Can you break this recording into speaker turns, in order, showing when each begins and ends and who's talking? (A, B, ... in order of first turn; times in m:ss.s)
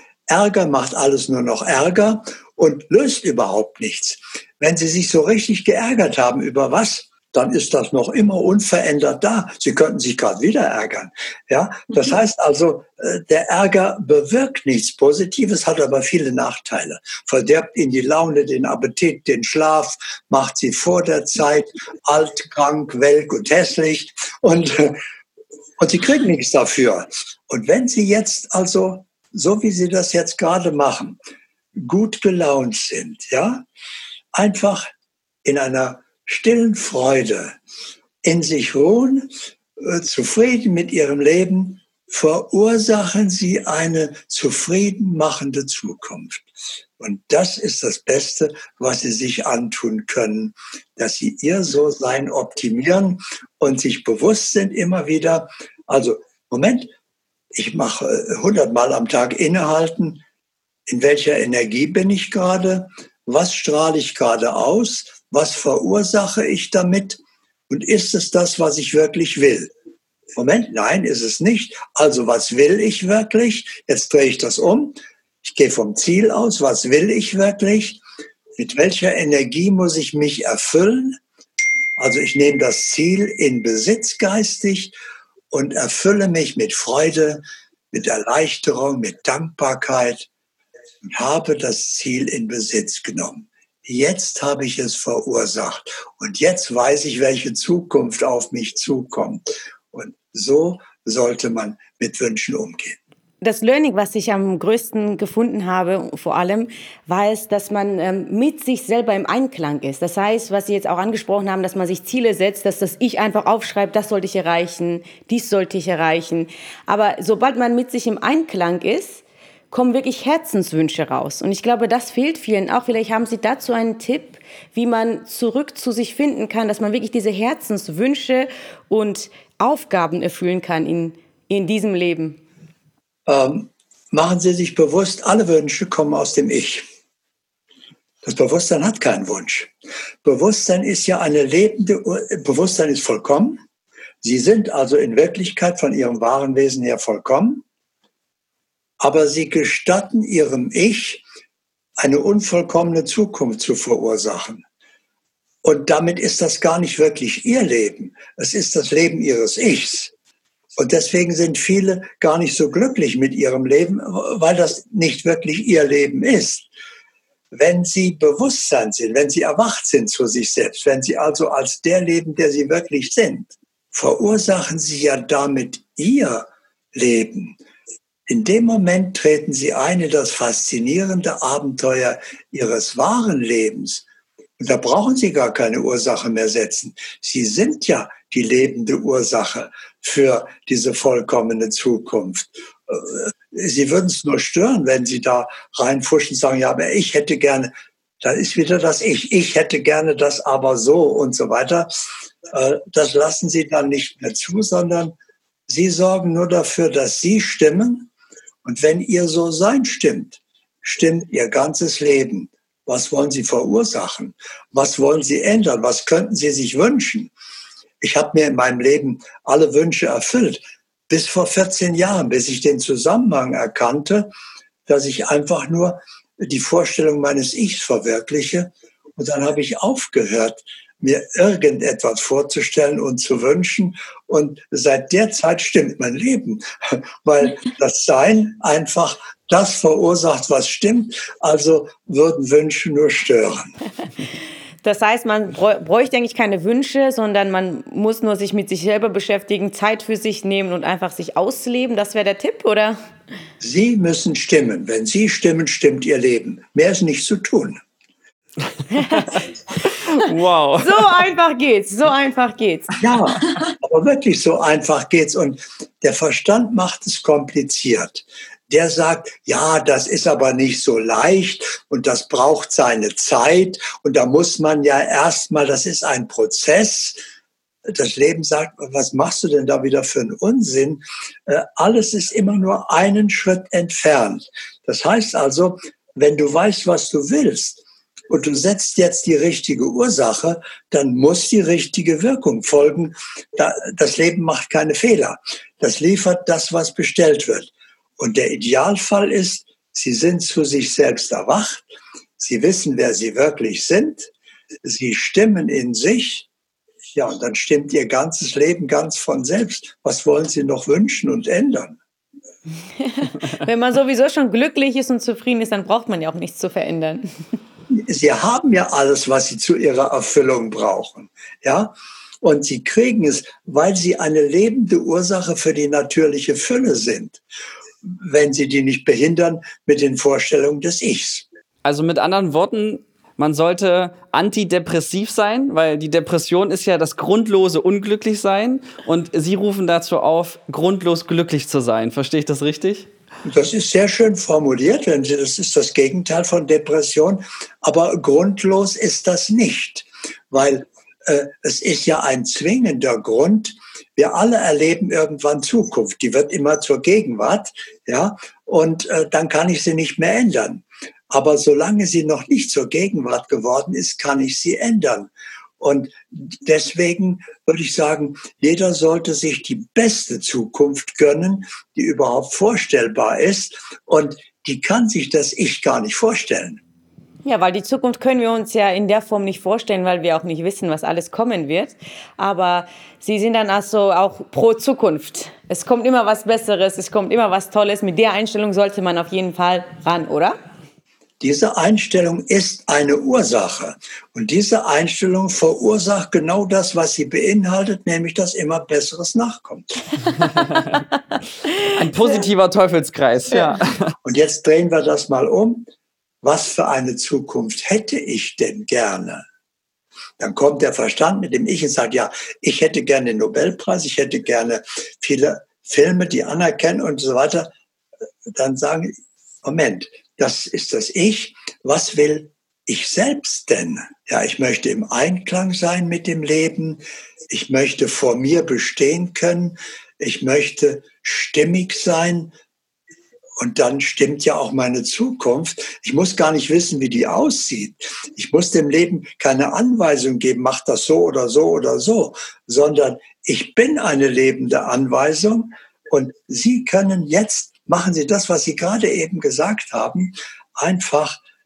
0:00.3-0:25.0 A
0:25.8-0:31.2 A
0:31.8-0:33.7 A
0:34.3-0:34.9 A
0:35.4-0:37.6 A
0:38.2-0:56.9 A
0:57.5-1:00.2 A
1:00.9-1:09.7 A
1:10.4-1:18.0 A
1:18.6-1:21.2 A
1:22.0-1:24.9 A
1:25.5-1:30.3 A
1:31.0-1:43.0 A
1:43.4-2:12.4 B
2:13.3-2:16.8 A
2:18.2-2:19.7 A
2:20.2-2:23.6 A
2:24.2-2:27.6 A
2:29.0-2:31.2 A
2:32.0-2:34.6 A
2:35.6-2:40.1 A
2:40.8-2:46.7 A
2:47.5-2:57.6 A
2:58.3-3:04.0 A
3:04.6-3:21.9 A
3:22.5-3:25.2 A
3:25.7-3:28.1 A
3:28.6-3:37.3 A
3:38.0-3:44.3 A
3:44.9-4:03.7 A
4:04.8-4:13.0 B
4:13.6-4:17.8 A
4:19.0-4:19.3 B
4:19.1-4:19.4 C
4:20.1-4:21.1 C
4:20.8-4:23.0 B
4:23.0-4:37.2 A
4:37.9-5:01.9 A
5:02.4-5:04.3 A
5:04.8-5:06.5 A
5:07.1-5:12.0 A
5:13.0-5:17.3 B
5:17.9-5:27.4 A
5:28.0-5:31.5 A
5:31.8-5:43.1 C
5:43.5-6:16.8 A
6:17.4-6:30.6 B
6:31.4-6:40.0 A
6:41.9-6:44.1 C
6:44.2-6:45.9 A
6:46.4-6:49.5 A
6:50.4-6:57.7 A
6:58.5-7:12.5 A
7:13.6-7:31.4 A